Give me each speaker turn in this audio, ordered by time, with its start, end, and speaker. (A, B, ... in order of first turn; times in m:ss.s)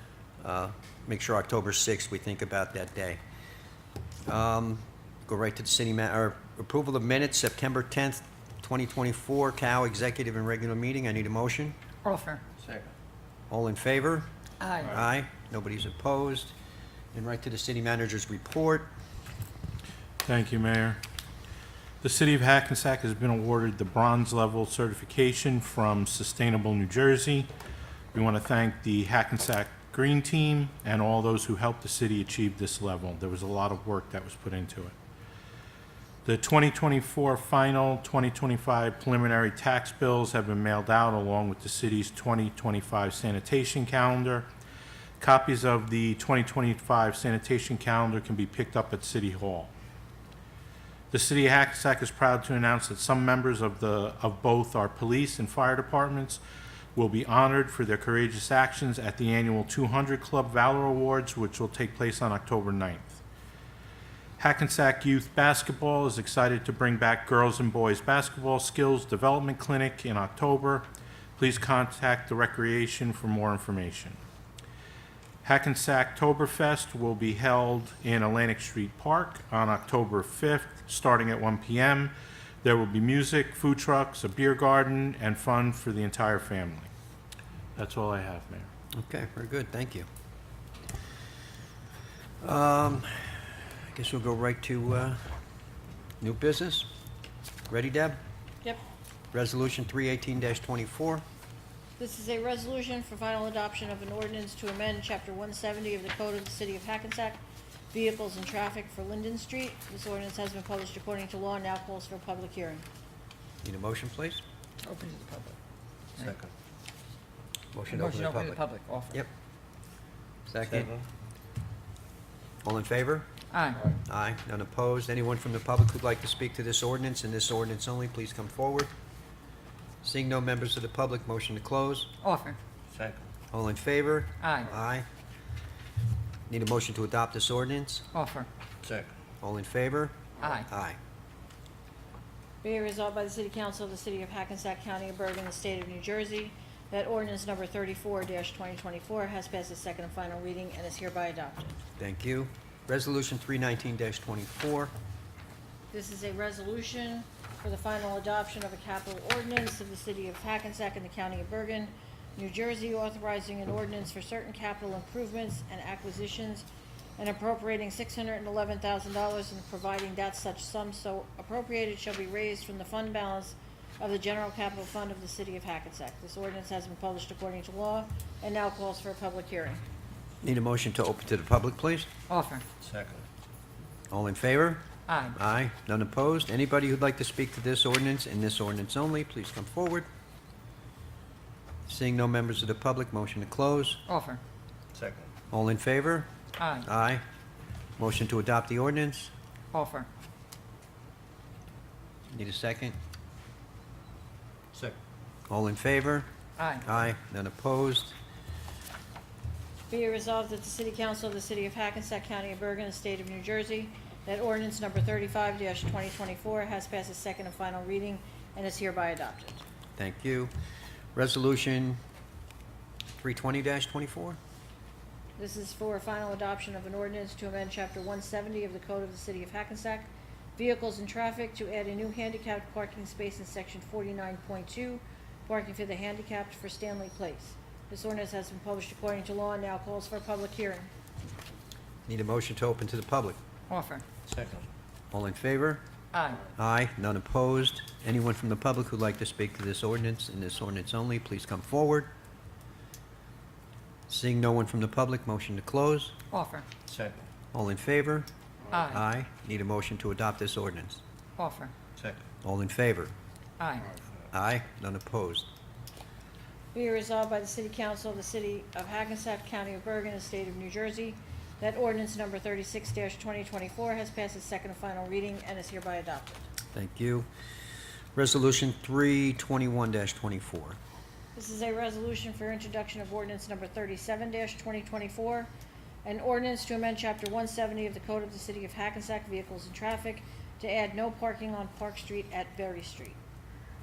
0:00.4-0:03.2 A
0:04.2-0:11.8 A
0:12.0-0:12.4 B
0:12.6-0:12.9 C
0:13.5-0:14.3 A
0:14.6-0:14.9 B
0:14.8-0:16.5 A
0:17.1-0:18.9 A
0:20.2-0:21.0 D
0:22.0-0:27.5 D
0:28.1-0:34.9 D
0:36.2-0:44.5 D
0:45.2-0:49.7 D
0:51.1-0:56.4 D
0:56.9-1:03.2 D
1:04.4-1:14.2 D
1:15.4-1:22.1 D
1:22.6-1:26.9 D
1:27.8-1:28.7 D
1:28.9-1:30.1 A
1:32.4-1:35.2 A
1:36.2-1:36.9 A
1:37.7-1:38.2 A
1:39.3-1:41.2 A
1:42.0-1:47.4 E
1:47.9-1:52.8 E
1:53.6-1:54.4 A
1:54.8-1:55.5 B
1:56.2-1:56.5 C
1:57.7-1:59.3 A
1:57.9-1:59.2 B
2:00.5-2:00.9 A
2:00.6-2:01.0 C
2:02.6-2:03.3 A
2:03.5-2:03.8 B
2:03.9-2:08.9 A
2:10.0-2:12.1 A
2:12.2-2:12.6 B
2:12.9-2:13.3 C
2:13.5-2:15.1 A
2:14.4-2:14.7 B
2:16.5-2:18.0 A
2:18.1-2:18.5 B
2:18.8-2:19.1 C
2:19.4-2:21.0 A
2:22.6-2:31.8 E
2:32.0-2:34.9 A
2:35.9-2:46.7 E
2:47.2-2:59.8 E
3:00.4-3:02.1 A
3:02.3-3:02.6 B
3:02.8-3:03.2 C
3:04.1-3:10.1 A
3:05.1-3:05.3 B
3:11.9-3:14.0 A
3:14.1-3:14.4 B
3:14.9-3:15.3 C
3:15.5-3:16.3 A
3:16.6-3:16.8 B
3:16.8-3:17.2 A
3:18.0-3:19.3 A
3:19.7-3:20.1 B
3:22.3-3:23.0 A
3:25.5-3:26.3 A
3:26.6-3:26.8 B
3:26.8-3:28.1 A
3:29.9-3:39.6 E
3:40.0-3:40.5 A
3:41.1-3:42.0 A
3:43.2-3:44.4 A
3:45.4-4:00.9 E
4:02.1-4:03.4 A
4:03.7-4:04.0 B
4:04.3-4:04.6 C
4:05.1-4:05.8 A
4:06.1-4:06.4 B
4:06.5-4:12.1 A
4:14.1-4:16.1 A
4:16.3-4:16.7 B
4:16.9-4:17.3 C
4:17.5-4:21.0 A
4:18.7-4:19.0 B
4:21.4-4:21.7 B
4:22.0-4:22.2 C
4:22.4-4:23.1 A
4:23.6-4:23.9 B
4:24.3-4:25.5 A
4:26.7-4:36.4 E
4:36.7-4:37.3 A
4:38.2-4:40.8 A
4:41.4-4:45.5 E
4:46.0-4:53.2 E